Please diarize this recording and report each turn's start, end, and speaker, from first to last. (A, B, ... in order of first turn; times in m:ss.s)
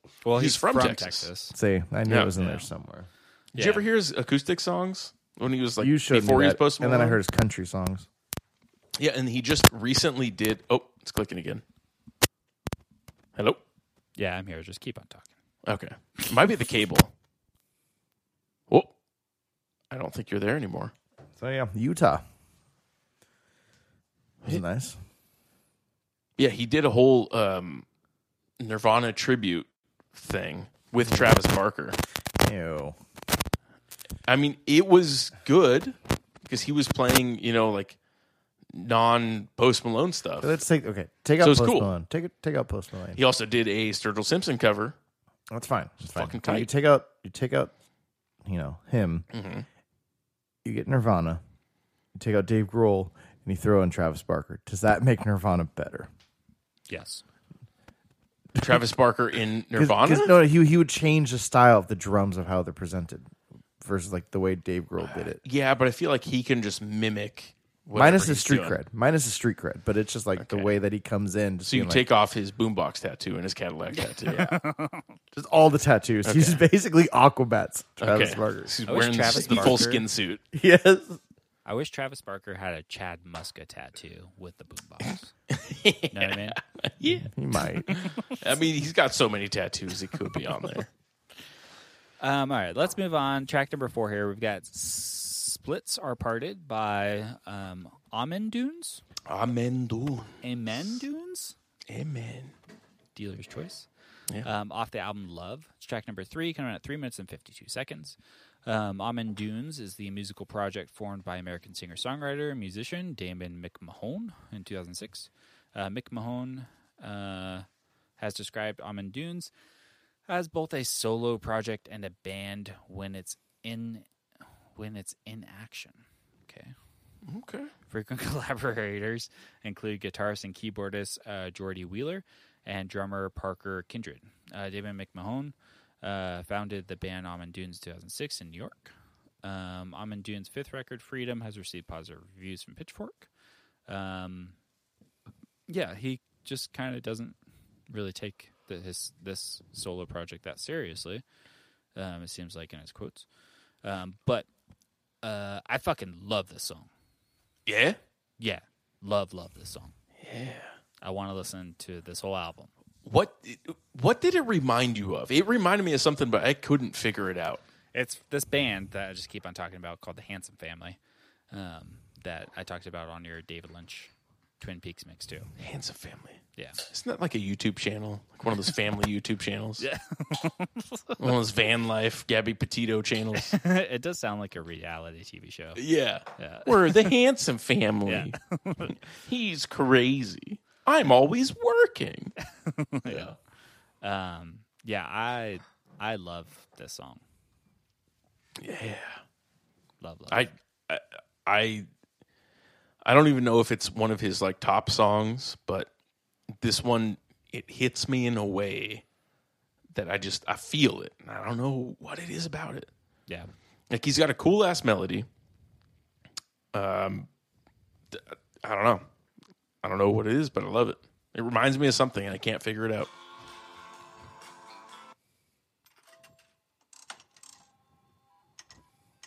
0:00.2-0:01.6 A
0:00.4-0:01.3 B
0:01.5-0:03.1 C
0:02.1-0:02.3 B
0:02.4-0:02.7 A
0:03.6-0:03.9 A
0:03.6-0:07.2 B
0:05.8-0:08.1 C
0:09.0-0:11.6 B
0:13.4-0:13.6 B
0:14.2-0:15.3 A
0:15.6-0:17.1 B
0:19.9-0:20.9 B
0:21.4-0:22.2 C
0:24.4-0:25.0 C
0:26.4-0:27.8 B
0:28.6-0:32.0 B
0:31.0-0:31.4 C
0:32.4-0:33.0 C
0:34.3-0:38.0 B
0:38.7-0:40.6 B
0:40.4-0:43.2 C
0:41.4-0:41.9 B
0:43.2-0:45.0 B
0:45.5-0:47.7 C
0:46.1-0:46.7 B
0:48.4-0:49.3 C
0:49.3-0:49.7 B
0:50.6-0:51.4 C
0:52.2-0:56.1 C
0:56.9-0:57.2 A
0:58.6-0:58.8 C
0:58.6-1:00.4 B
0:59.7-1:05.4 C
1:05.0-1:08.8 B
1:08.0-1:12.0 C
1:10.4-1:10.8 B
1:11.6-1:14.6 B
1:14.0-1:15.2 A
1:15.3-1:18.8 C
1:16.2-1:16.6 B
1:18.0-1:20.4 B
1:18.9-1:20.0 A
1:19.3-1:19.8 C
1:20.5-1:21.2 C
1:21.6-1:25.3 A
1:25.5-1:30.9 B
1:26.1-1:26.6 A
1:27.2-1:27.9 C
1:32.2-1:39.0 A
1:39.3-1:40.4 B
1:40.4-1:41.6 A
1:41.9-1:42.5 B
1:43.2-1:43.9 A
1:44.4-1:57.7 A
1:58.2-1:59.5 A
2:00.3-2:04.1 A
2:04.8-2:06.7 A
2:07.3-2:07.7 B
2:07.9-2:23.3 A
2:23.9-2:24.6 A
2:25.7-2:27.4 A
2:27.9-2:31.2 A
2:32.0-2:33.3 A
2:33.8-2:34.5 A
2:35.2-2:36.9 A
2:37.7-2:38.0 B
2:38.4-2:39.9 A
2:40.2-2:40.7 B
2:41.0-2:42.7 A
2:43.0-2:47.6 B
2:47.9-2:51.0 A
2:51.5-2:55.5 A
2:55.6-2:59.9 B
2:59.8-3:01.3 A
3:01.2-3:03.6 B
3:03.4-3:05.8 A
3:05.8-3:08.4 B
3:06.4-3:07.1 A
3:08.1-3:09.0 A
3:09.1-3:12.4 B
3:12.4-3:13.3 A
3:13.1-3:13.4 B
3:14.0-3:17.2 A
3:18.6-3:19.2 B
3:20.0-3:20.5 A
3:20.3-3:21.9 B
3:23.0-3:25.9 B
3:26.6-3:29.0 B
3:29.9-3:32.9 B
3:33.9-3:35.3 B
3:36.7-3:37.3 B
3:38.1-3:39.0 B
3:39.8-3:43.1 B